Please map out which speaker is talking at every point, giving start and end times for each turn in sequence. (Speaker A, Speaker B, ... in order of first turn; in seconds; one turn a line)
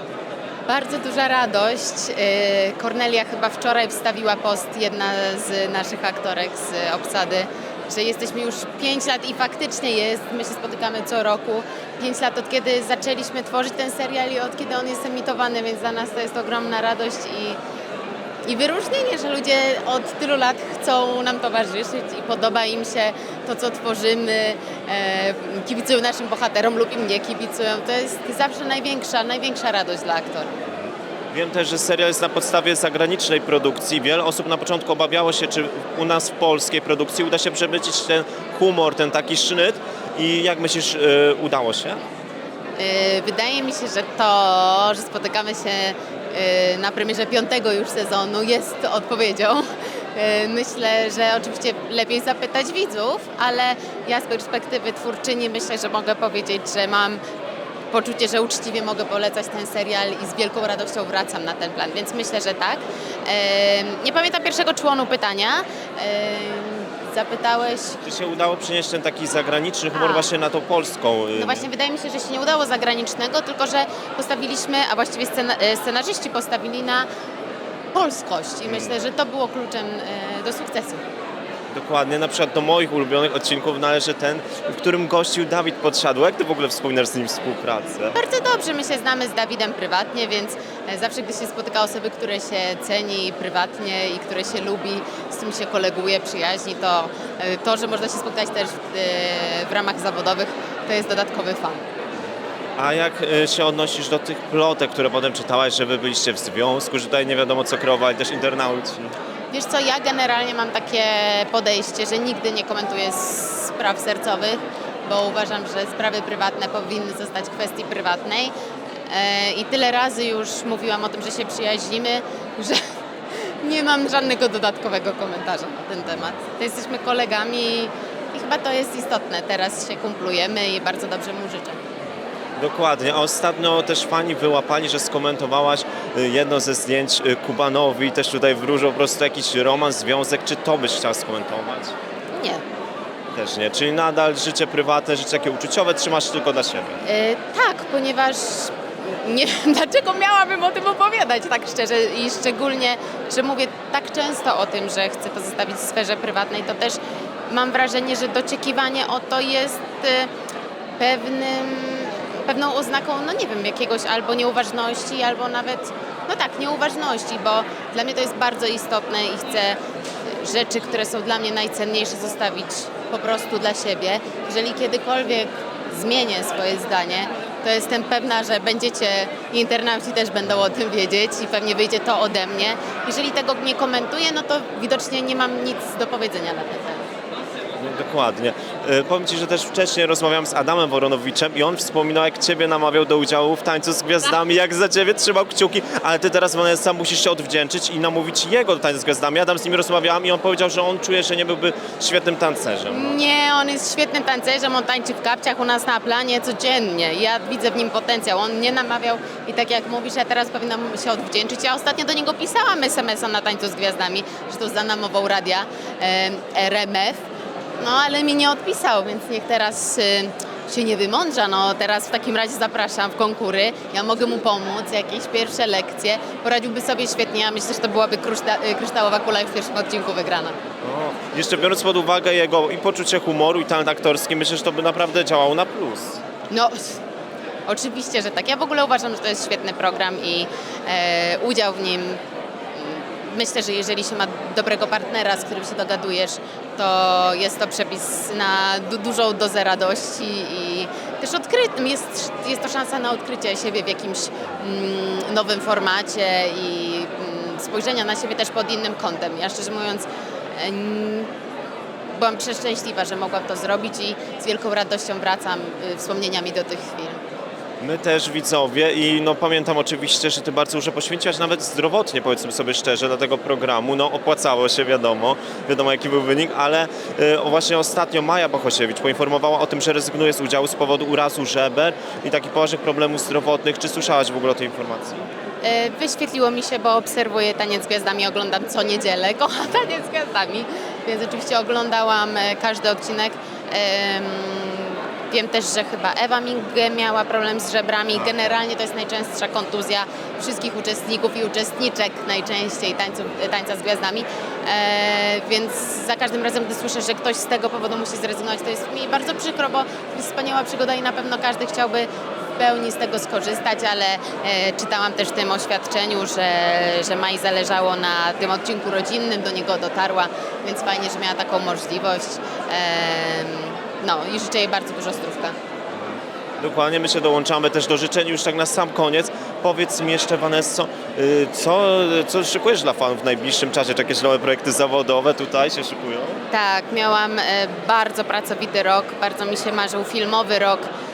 Speaker A: 0.7-17.6
Speaker A: 18.4-30.5
Speaker B: 30.7-42.0
Speaker A: 42.8-57.2
Speaker A: 57.9-68.0
Speaker B: 68.0-71.7
Speaker A: 69.9-70.3
Speaker A: 71.3-77.1
Speaker A: 77.9-81.0
Speaker B: 78.7-79.0
Speaker B: 81.7-88.2
Speaker A: 88.1-101.8
Speaker B: 102.8-109.1
Speaker A: 109.5-118.5
Speaker A: 119.1-131.8
Speaker B: 132.6-141.9
Speaker A: 142.3-142.6
Speaker B: 143.3-147.0
Speaker A: 147.0-157.0
Speaker A: 157.5-160.3
Speaker A: 161.0-187.1
Speaker B: 187.8-203.2
Speaker A: 202.9-217.2
Speaker A: 217.8-230.6
Speaker B: 230.8-236.2
Speaker A: 236.5-236.9
Speaker A: 237.7-242.2
Speaker A: 242.7-261.3
Speaker A: 262.1-267.2
Speaker B: 267.8-285.3
Speaker A: 285.6-325.5
Speaker B: 325.9-336.4
Speaker A: 336.5-340.9